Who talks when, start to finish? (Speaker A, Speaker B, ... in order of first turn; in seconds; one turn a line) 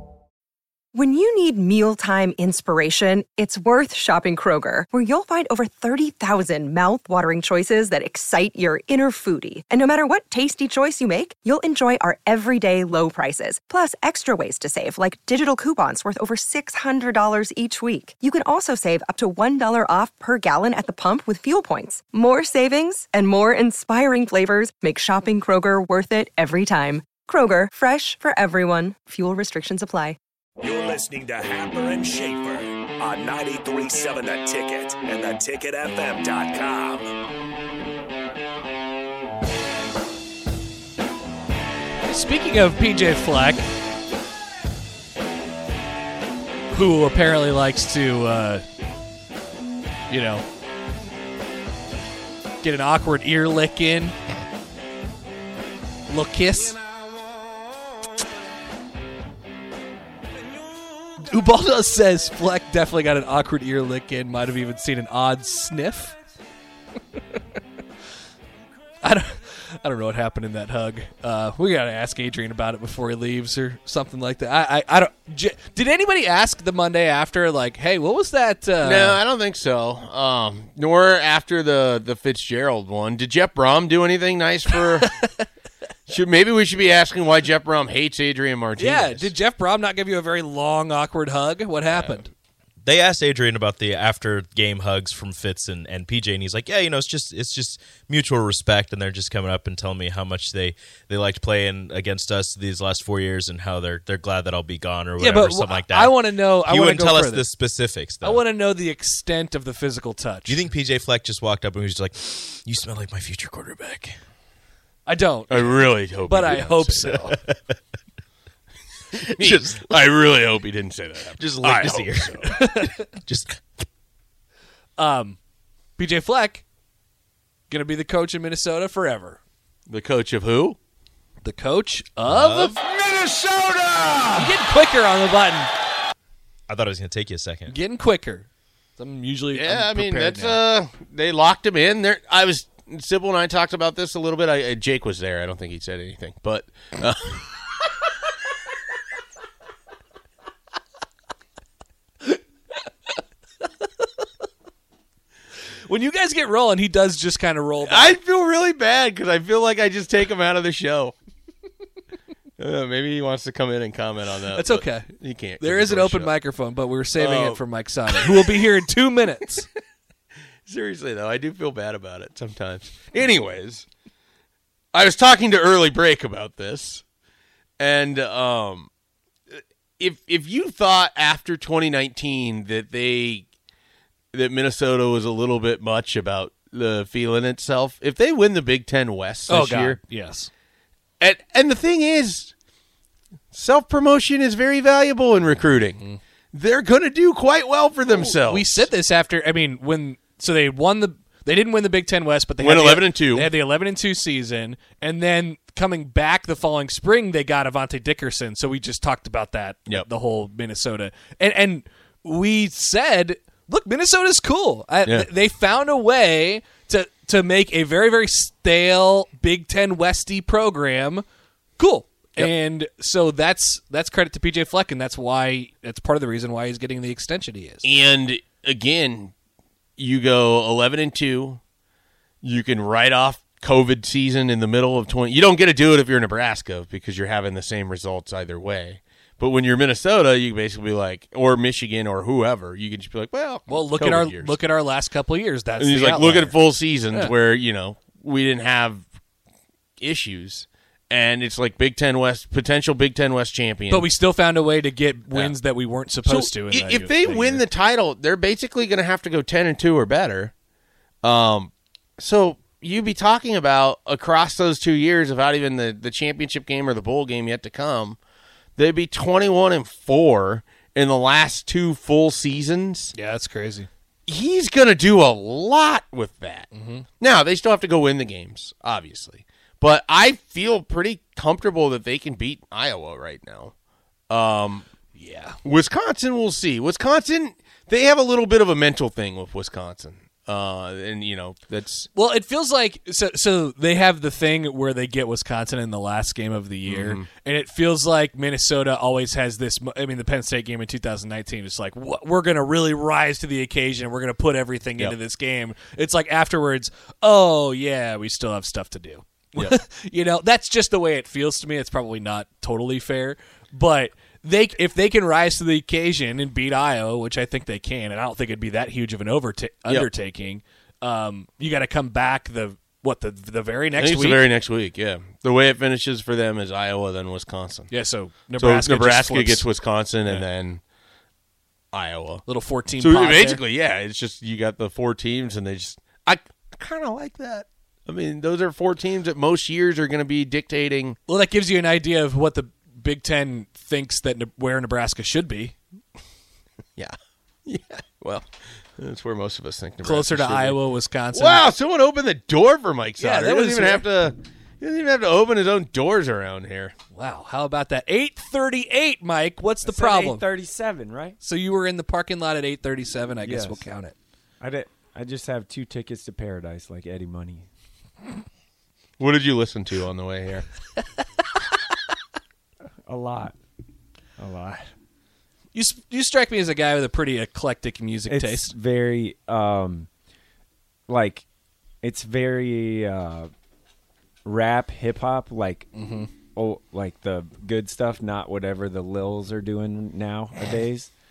Speaker A: 0.9-30.2
Speaker B: 30.6-37.1
Speaker C: 42.1-43.7
Speaker C: 46.7-48.6
Speaker C: 50.1-50.5
Speaker C: 52.6-54.1
Speaker C: 56.1-56.8
Speaker C: 61.3-66.2
Speaker C: 69.0-79.2
Speaker D: 78.8-85.1
Speaker C: 85.0-85.5
Speaker D: 86.1-89.4
Speaker C: 88.8-92.3
Speaker D: 91.9-92.3
Speaker E: 92.8-108.5
Speaker C: 105.2-107.5
Speaker C: 108.2-110.6
Speaker E: 110.5-114.2
Speaker C: 115.1-117.3
Speaker D: 115.5-117.3
Speaker D: 119.1-122.5
Speaker E: 119.4-119.8
Speaker E: 121.4-123.6
Speaker C: 122.6-123.0
Speaker C: 125.0-125.4
Speaker C: 126.0-126.6
Speaker C: 127.7-129.4
Speaker D: 129.9-130.8
Speaker C: 131.4-132.8
Speaker E: 132.2-132.8
Speaker B: 132.9-134.6
Speaker C: 134.4-135.7
Speaker E: 136.7-137.8
Speaker C: 137.7-140.6
Speaker D: 139.5-147.9
Speaker C: 155.8-158.2
Speaker D: 157.8-161.2
Speaker D: 162.6-166.4
Speaker C: 164.6-165.1
Speaker C: 165.6-169.7
Speaker D: 167.2-168.9
Speaker D: 170.7-173.9
Speaker D: 174.9-177.0
Speaker D: 177.8-178.9
Speaker D: 179.5-183.5
Speaker D: 184.3-190.0
Speaker C: 189.5-190.5
Speaker D: 191.2-192.5
Speaker D: 193.5-198.9
Speaker C: 198.2-221.2
Speaker D: 202.6-203.6
Speaker D: 215.1-215.3
Speaker C: 221.8-227.8
Speaker D: 227.8-229.3
Speaker D: 230.0-231.6
Speaker D: 232.4-244.6
Speaker C: 243.7-246.6
Speaker D: 245.8-249.1
Speaker D: 250.0-254.1
Speaker C: 253.9-257.6
Speaker D: 255.3-255.6
Speaker D: 256.2-260.5
Speaker D: 261.2-268.2
Speaker D: 268.8-273.1
Speaker C: 273.1-273.9
Speaker D: 274.3-276.7
Speaker C: 276.7-277.1
Speaker D: 277.2-283.7
Speaker D: 284.3-284.9
Speaker C: 285.1-285.6
Speaker D: 285.6-292.1
Speaker C: 292.1-324.5
Speaker D: 296.9-297.3
Speaker D: 324.0-327.9
Speaker C: 327.9-329.7
Speaker D: 328.6-330.8
Speaker D: 331.9-341.2
Speaker C: 332.5-333.6
Speaker C: 341.3-345.8
Speaker D: 347.7-356.9
Speaker C: 350.1-351.7
Speaker C: 353.2-354.1
Speaker C: 357.1-360.4
Speaker F: 359.9-361.4
Speaker C: 361.4-364.1
Speaker F: 363.4-363.9
Speaker F: 364.6-367.7
Speaker D: 369.2-370.7
Speaker F: 373.1-373.6
Speaker F: 374.4-374.9
Speaker C: 375.7-378.7
Speaker F: 378.3-380.1
Speaker F: 381.1-381.4
Speaker F: 382.0-383.5
Speaker F: 384.4-385.9
Speaker C: 385.9-386.3
Speaker F: 386.5-391.1